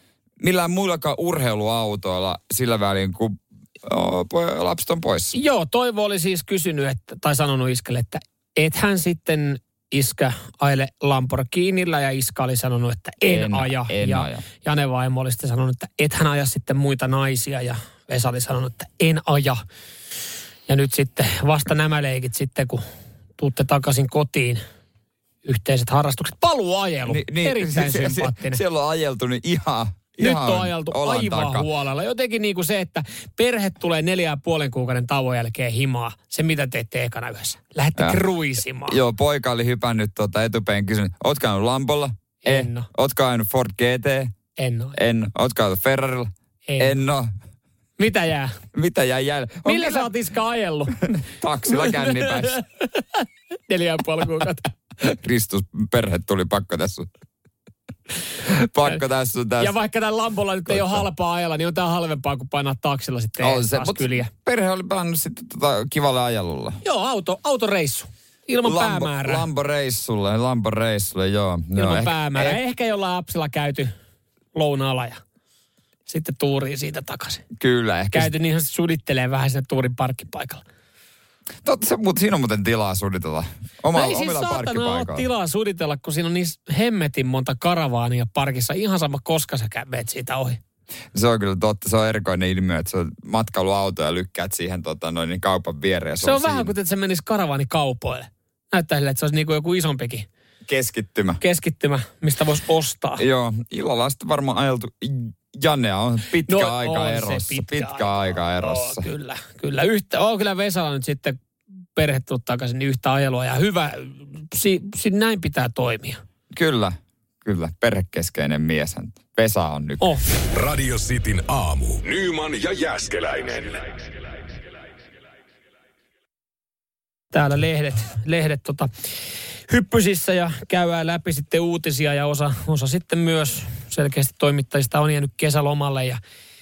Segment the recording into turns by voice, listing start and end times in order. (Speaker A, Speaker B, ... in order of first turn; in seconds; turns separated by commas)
Speaker A: 0.4-5.3, Speaker B: 5.3-19.6, Speaker A: 13.3-14.4, Speaker B: 20.7-22.8, Speaker B: 23.4-24.6, Speaker B: 25.4-28.6, Speaker A: 27.1-31.7, Speaker B: 30.2-39.0, Speaker A: 38.0-38.2, Speaker A: 38.9-44.3, Speaker B: 42.4-42.9, Speaker B: 44.6-45.0, Speaker A: 45.0-47.3, Speaker B: 46.7-47.0, Speaker B: 48.0-48.6, Speaker A: 48.7-50.1, Speaker B: 49.7-54.7, Speaker A: 51.0-52.6, Speaker A: 55.0-57.1, Speaker A: 58.4-59.7, Speaker B: 59.6-64.3, Speaker A: 60.7-61.0, Speaker A: 63.4-66.8, Speaker B: 66.8-69.5, Speaker A: 68.6-72.6, Speaker B: 71.8-73.9, Speaker B: 74.5-75.2, Speaker B: 76.1-77.5, Speaker A: 77.6-78.3, Speaker B: 78.1-80.6, Speaker A: 81.6-85.3, Speaker B: 83.9-90.6, Speaker A: 91.1-96.7, Speaker B: 96.2-100.3, Speaker A: 100.7-101.4, Speaker B: 101.4-103.2, Speaker A: 103.2-109.1, Speaker B: 106.5-111.4, Speaker B: 112.0-116.2, Speaker A: 116.5-120.1, Speaker C: 120.5-124.0, Speaker B: 127.3-128.9, Speaker B: 129.7-136.2